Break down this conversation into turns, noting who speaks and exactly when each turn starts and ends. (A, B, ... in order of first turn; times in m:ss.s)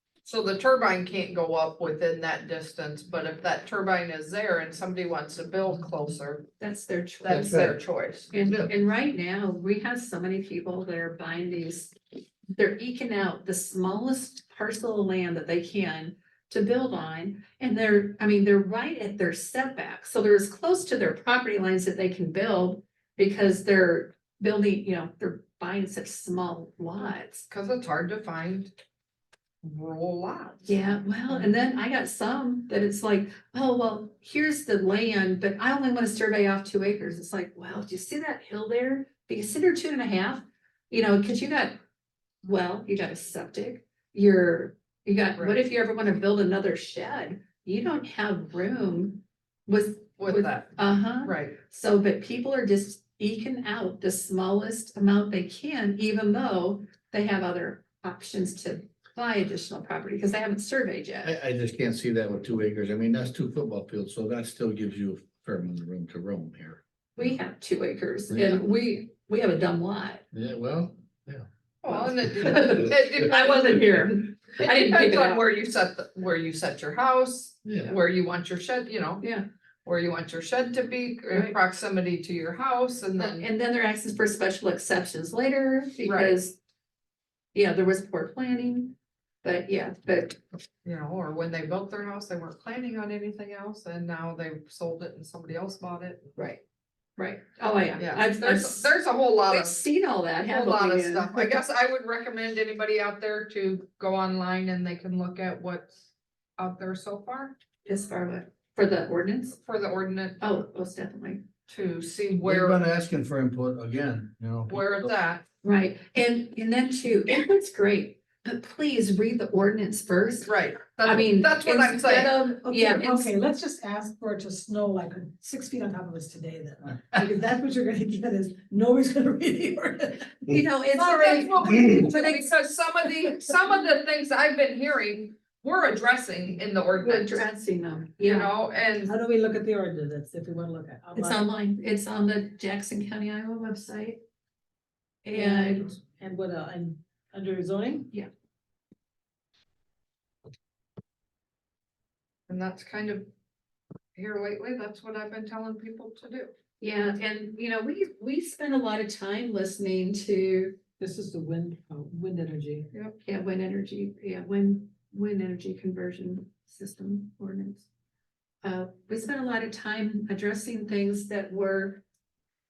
0:00.2-0:06.5 A
0:06.6-0:07.6 B
0:07.2-0:08.3 A
0:07.3-0:07.7 C
0:08.3-0:12.0 B
0:08.4-0:08.7 C
0:12.6-0:27.4 B
0:27.5-0:28.7 A
0:29.6-0:31.5 A
0:30.6-0:41.8 B
0:42.4-1:01.4 B
0:45.4-0:45.6 A
0:50.2-0:50.7 A
0:51.2-0:51.6 A
1:01.2-1:07.3 C
1:07.2-1:10.2 B
1:08.3-1:08.6 C
1:10.3-1:11.4 C
1:11.8-1:19.2 A
1:11.9-1:15.4 B
1:17.6-1:18.0 C
1:19.8-1:23.5 A
1:21.3-1:21.6 B
1:23.2-1:26.6 B
1:26.0-1:26.4 A
1:27.5-1:30.4 B
1:30.8-1:36.3 A
1:37.2-1:38.9 B
1:38.0-1:39.8 A
1:39.5-1:41.6 B
1:40.4-1:46.1 A
1:46.6-1:47.6 A
1:47.9-1:49.6 B
1:49.6-1:50.4 A
1:50.4-1:51.4 B
1:51.7-1:52.8 A
1:52.3-1:55.0 C
1:54.7-1:55.4 A
1:55.6-2:00.5 B
2:00.5-2:02.3 A
2:01.0-2:03.3 B
2:02.3-2:10.4 D
2:10.5-2:12.4 B
2:11.0-2:17.4 A
2:11.0-2:12.0 D
2:17.0-2:18.5 B
2:18.2-2:19.1 A
2:19.0-2:21.5 D
2:21.1-2:24.2 B
2:25.2-2:25.9 B
2:25.3-2:28.1 D
2:32.5-2:33.3 A
2:34.1-2:36.5 A
2:36.8-2:40.8 B
2:41.0-2:42.9 D
2:43.2-2:47.9 B
2:48.6-2:52.0 B